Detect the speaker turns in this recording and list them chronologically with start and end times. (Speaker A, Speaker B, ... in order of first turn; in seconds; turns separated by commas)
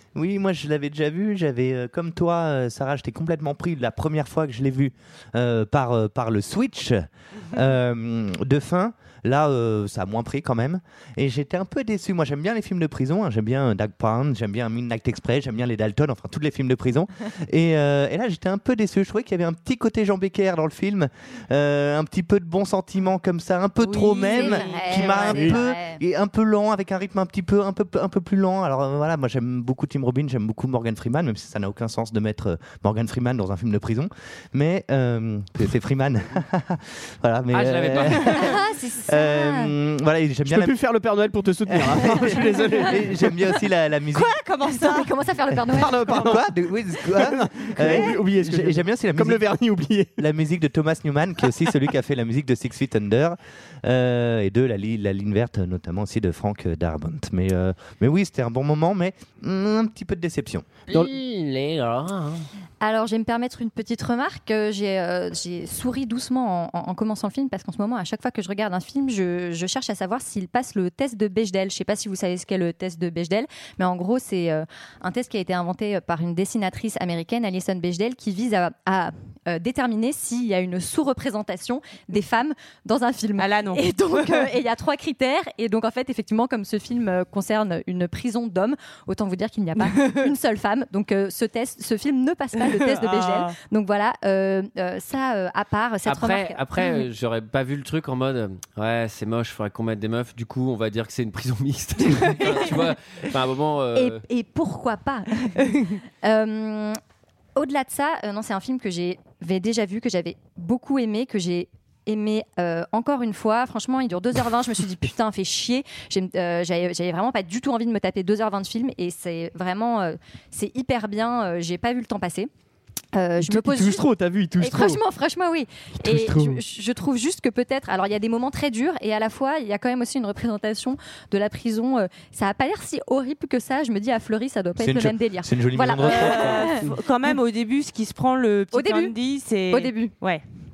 Speaker A: 0.1-40.8, Speaker B: 23.8-25.3, Speaker C: 24.3-26.0, Speaker D: 25.3-25.6, Speaker E: 37.5-38.4, Speaker C: 38.2-39.7, Speaker D: 40.5-43.0, Speaker A: 41.7-44.4, Speaker B: 44.1-45.1, Speaker C: 44.7-46.4, Speaker D: 45.6-46.5, Speaker A: 46.1-49.5, Speaker D: 47.1-50.2, Speaker A: 50.2-60.7, Speaker E: 60.9-62.4, Speaker C: 62.8-97.0, Speaker B: 83.4-84.5, Speaker B: 89.8-90.3, Speaker B: 92.6-93.5, Speaker E: 96.0-104.2, Speaker C: 102.4-102.7, Speaker C: 104.0-107.0, Speaker C: 107.6-122.5, Speaker C: 123.1-124.0, Speaker D: 123.4-125.0, Speaker C: 124.6-136.9, Speaker D: 126.0-126.6, Speaker A: 134.8-136.8, Speaker B: 136.0-140.4, Speaker C: 138.7-139.1, Speaker C: 139.7-140.1